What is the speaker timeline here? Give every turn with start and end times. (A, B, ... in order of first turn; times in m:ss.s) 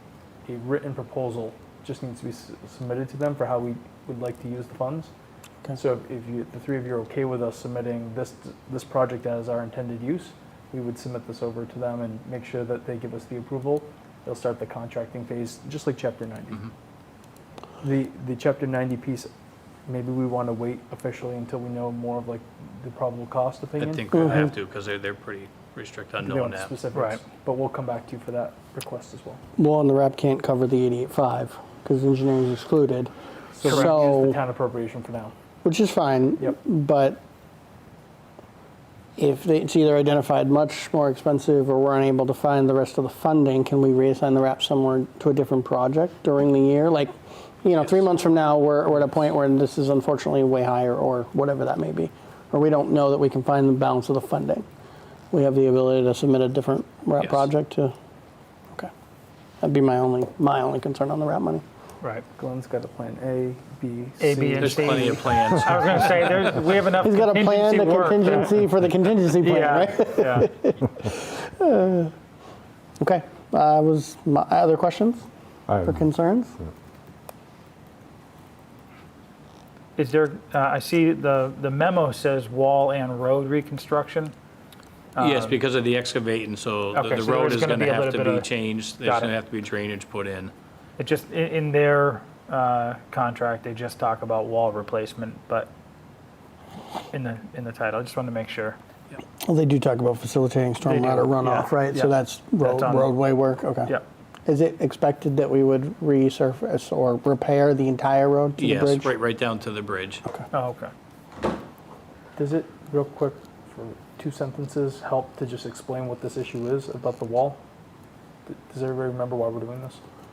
0:00.5-0:05.1 A
0:05.7-0:16.7 A
0:17.8-0:19.3 A
0:19.9-0:24.1 A
0:23.8-0:26.7 B
0:24.1-0:24.5 C
0:26.2-0:29.4 A
0:26.9-0:27.2 D
0:29.6-0:33.1 C
0:33.5-0:35.3 A
0:33.6-0:34.4 C
0:35.6-0:37.2 C
0:39.2-0:47.1 C
0:47.6-0:54.6 C
0:55.3-0:57.9 C
0:57.2-0:57.5 B
0:59.6-1:01.6 C
1:02.4-1:05.2 A
1:04.2-1:08.6 D
1:04.6-1:06.7 B
1:07.0-1:12.1 C
1:09.4-1:10.5 D
1:13.0-1:15.2 C
1:15.8-1:16.6 C
1:20.0-1:24.3 D
1:25.1-1:25.6 D
1:25.2-1:30.5 B
1:26.9-1:29.3 D
1:31.0-1:35.7 D
1:37.1-1:38.8 D
1:39.4-1:49.2 C
1:40.8-1:43.1 D
1:48.6-1:50.2 B
1:50.5-1:50.9 D
1:52.4-1:57.6 A
1:58.5-2:00.0 A